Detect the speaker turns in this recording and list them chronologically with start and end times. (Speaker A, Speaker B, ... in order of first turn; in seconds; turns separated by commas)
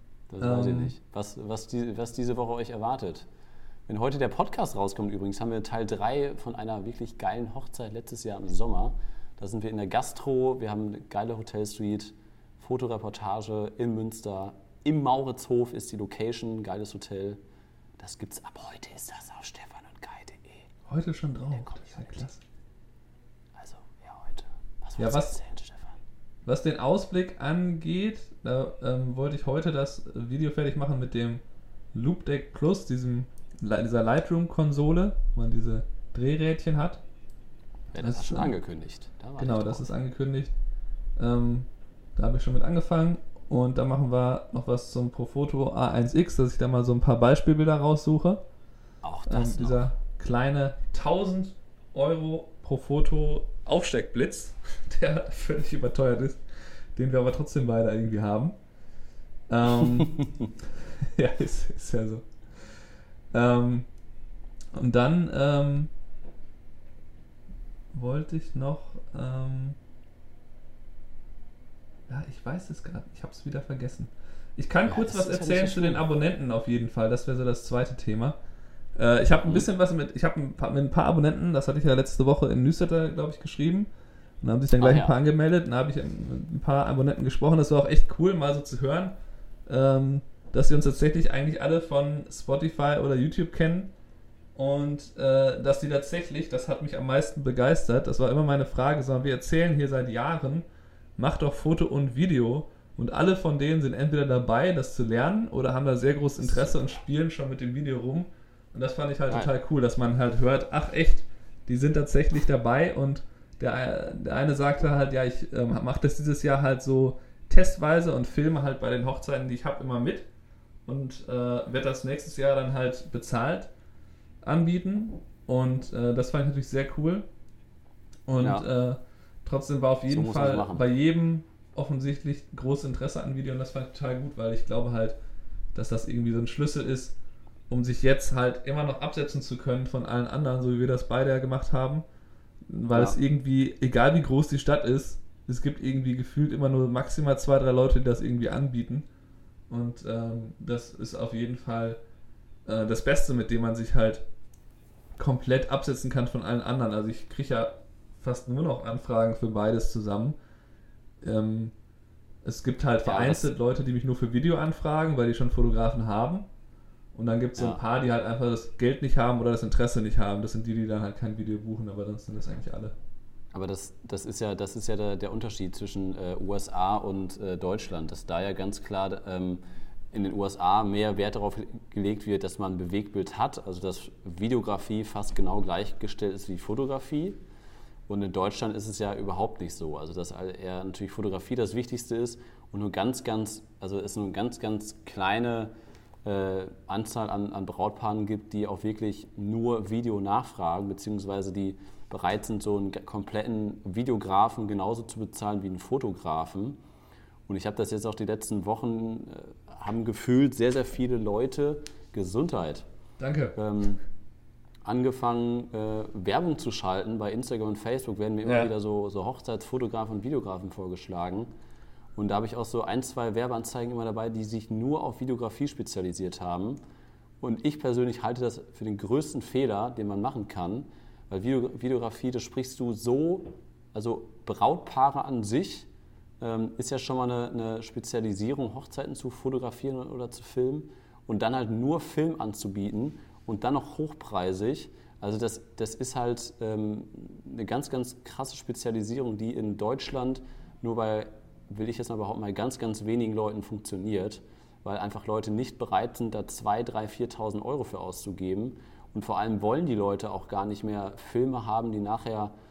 Speaker A: 0.3-3.3, Speaker B: 0.4-0.9, Speaker A: 3.9-17.4, Speaker A: 18.0-20.7, Speaker B: 20.9-22.4, Speaker A: 21.6-22.2, Speaker A: 23.6-25.9, Speaker B: 25.0-25.3, Speaker B: 26.4-31.4, Speaker B: 31.9-37.0, Speaker A: 37.9-39.8, Speaker B: 38.0-38.5, Speaker B: 39.4-40.5, Speaker B: 41.2-48.4, Speaker A: 49.0-49.8, Speaker B: 49.3-56.4, Speaker B: 56.9-58.5, Speaker B: 59.5-60.3, Speaker B: 61.1-62.7, Speaker B: 63.3-63.9, Speaker B: 64.7-65.9, Speaker B: 67.9-69.8, Speaker B: 72.1-78.4, Speaker A: 74.8-76.0, Speaker B: 78.9-83.9, Speaker A: 79.4-79.7, Speaker B: 84.4-89.1, Speaker A: 84.8-85.2, Speaker B: 89.7-93.9, Speaker B: 94.5-100.7, Speaker B: 101.2-120.3, Speaker B: 120.8-123.7, Speaker B: 124.4-127.3, Speaker B: 128.3-135.2, Speaker A: 128.4-128.7, Speaker A: 130.1-130.8, Speaker B: 135.7-137.2, Speaker B: 137.7-142.0, Speaker B: 142.7-149.1, Speaker B: 149.7-152.0, Speaker B: 152.7-154.2, Speaker B: 155.2-160.4, Speaker B: 161.2-161.7, Speaker B: 162.4-166.5, Speaker A: 163.0-163.5, Speaker B: 167.1-172.9, Speaker A: 167.6-167.8, Speaker A: 173.5-187.4, Speaker A: 188.1-195.7, Speaker A: 196.2-206.8, Speaker A: 207.5-212.9, Speaker B: 213.2-213.6, Speaker A: 213.5-214.0, Speaker A: 214.8-221.5, Speaker B: 218.4-218.7, Speaker A: 222.2-226.8, Speaker A: 227.4-235.9, Speaker A: 236.4-262.5